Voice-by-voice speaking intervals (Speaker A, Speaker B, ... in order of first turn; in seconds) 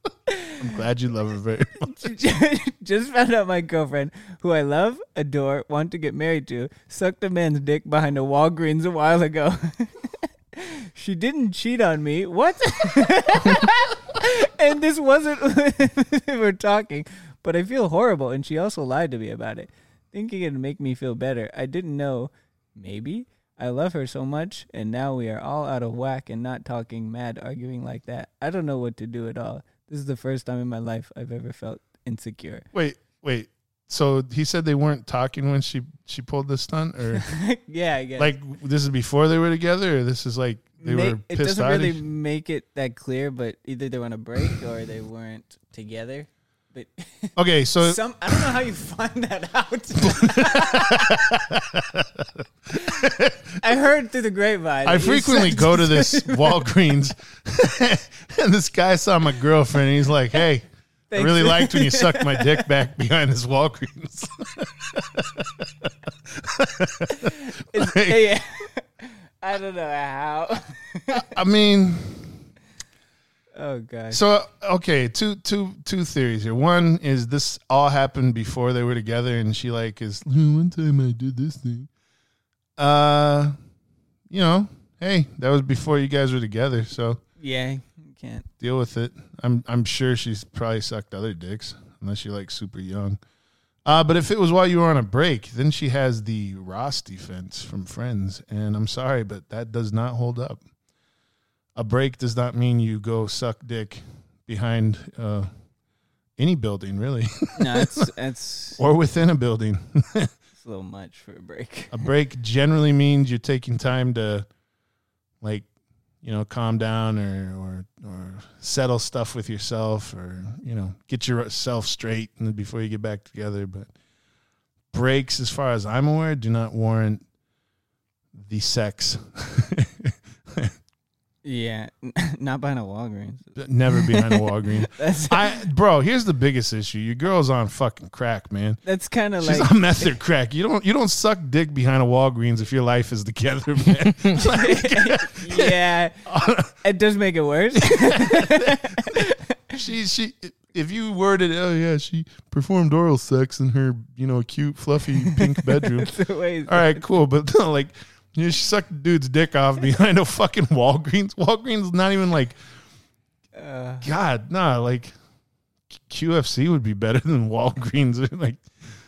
Speaker A: 0.3-0.6, 1.8-32.6, 37.2-38.3, 40.8-51.3, 52.7-53.0, 53.6-56.7, 61.1-62.7, 67.1-71.2, 73.6-74.2, 87.4-88.5, 107.6-108.8, 110.6-112.1, 131.4-135.6, 138.8-140.1, 144.3-146.2, 146.8-149.6, 155.2-157.0, 163.6-164.1
Speaker B: 0.6-1.9, 32.7-37.3, 38.2-42.0, 47.4-48.5, 50.0-53.6, 54.9-68.2, 71.1-72.3, 74.1-81.9, 82.8-83.5, 84.3-87.2, 88.6-93.2, 93.8-100.6, 101.8-105.5, 106.4-108.1, 108.8-110.3, 111.9-114.5, 115.4-115.7, 116.2-123.9, 124.9-127.2, 128.4-130.7, 133.6-138.8, 139.4-146.8, 147.8-149.2, 149.7-156.1, 156.7-162.6, 164.0-165.1, 166.0-168.6